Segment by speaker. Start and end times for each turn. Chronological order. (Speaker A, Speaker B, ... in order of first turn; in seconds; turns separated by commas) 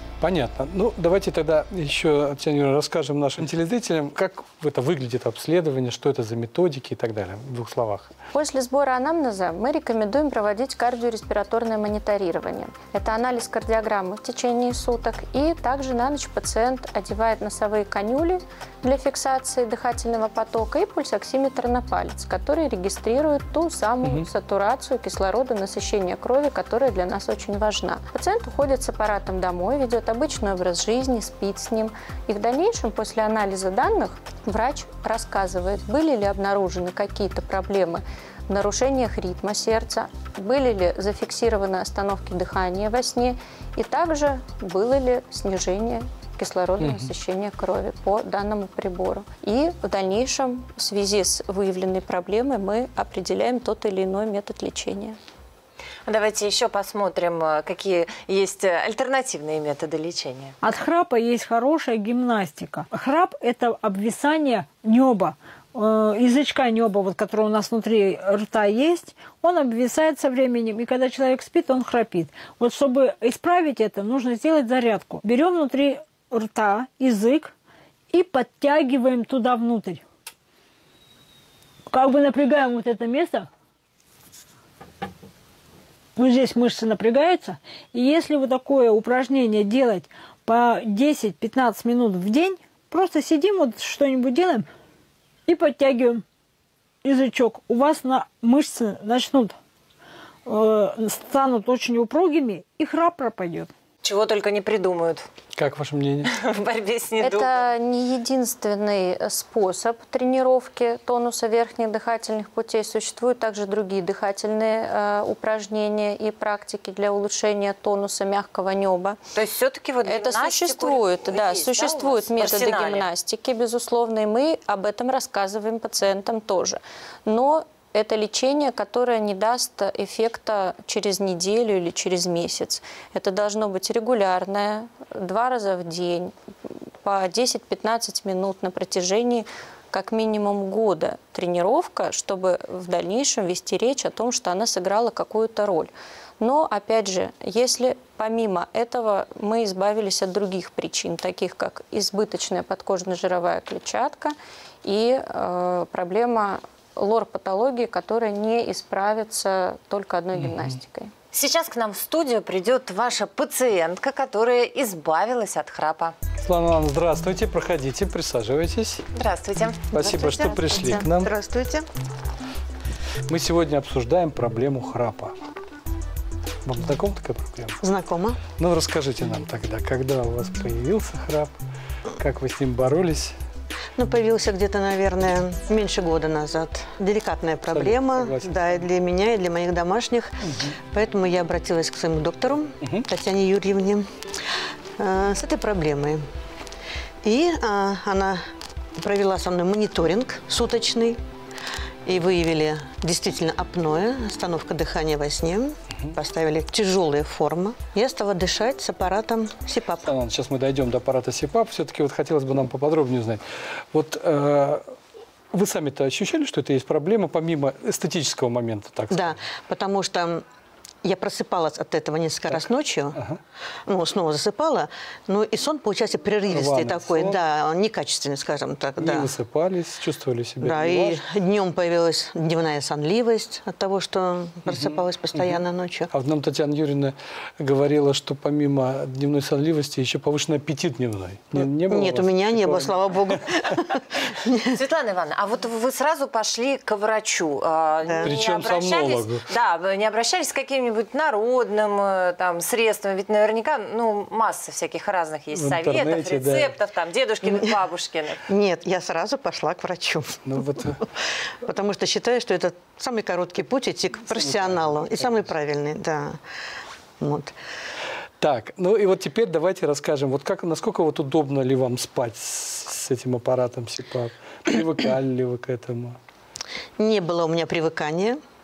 Speaker A: 0.2-8.1, Speaker B: 8.3-55.2, Speaker A: 24.0-24.3, Speaker A: 46.8-47.1, Speaker C: 56.1-60.6, Speaker D: 60.6-77.5, Speaker D: 78.1-80.0, Speaker D: 81.9-83.5, Speaker D: 86.2-94.7, Speaker D: 95.5-96.2, Speaker D: 97.0-99.5, Speaker D: 100.5-103.7, Speaker C: 104.0-105.3, Speaker A: 105.5-106.3, Speaker C: 106.3-107.7, Speaker B: 107.2-119.2, Speaker C: 119.3-123.1, Speaker B: 120.0-161.1, Speaker A: 160.3-160.8, Speaker C: 161.3-166.2, Speaker A: 166.4-169.1, Speaker C: 169.2-170.9, Speaker A: 169.9-171.3, Speaker E: 169.9-171.8, Speaker A: 173.3-175.3, Speaker A: 176.6-177.8, Speaker E: 177.8-178.4, Speaker A: 178.6-181.6, Speaker A: 182.2-183.4, Speaker E: 184.0-190.4, Speaker A: 187.7-188.8, Speaker A: 190.4-190.8, Speaker E: 190.9-194.1, Speaker E: 195.0-196.2, Speaker E: 197.2-198.4, Speaker E: 199.0-201.2, Speaker E: 202.1-210.1, Speaker A: 210.1-214.9, Speaker A: 215.5-219.4, Speaker E: 219.1-220.4, Speaker E: 221.0-223.2, Speaker A: 222.5-223.4, Speaker E: 223.9-229.3, Speaker A: 226.5-227.4, Speaker A: 229.0-231.2, Speaker E: 230.6-236.1, Speaker A: 234.7-235.6, Speaker A: 236.1-243.4, Speaker E: 241.6-244.7, Speaker C: 244.7-258.4, Speaker E: 248.1-248.3, Speaker A: 248.2-249.4, Speaker A: 255.5-256.8, Speaker E: 258.5-260.4, Speaker A: 260.4-261.0, Speaker E: 261.6-266.4, Speaker A: 264.3-265.4, Speaker E: 267.2-267.5, Speaker A: 268.4-276.2, Speaker E: 277.0-278.4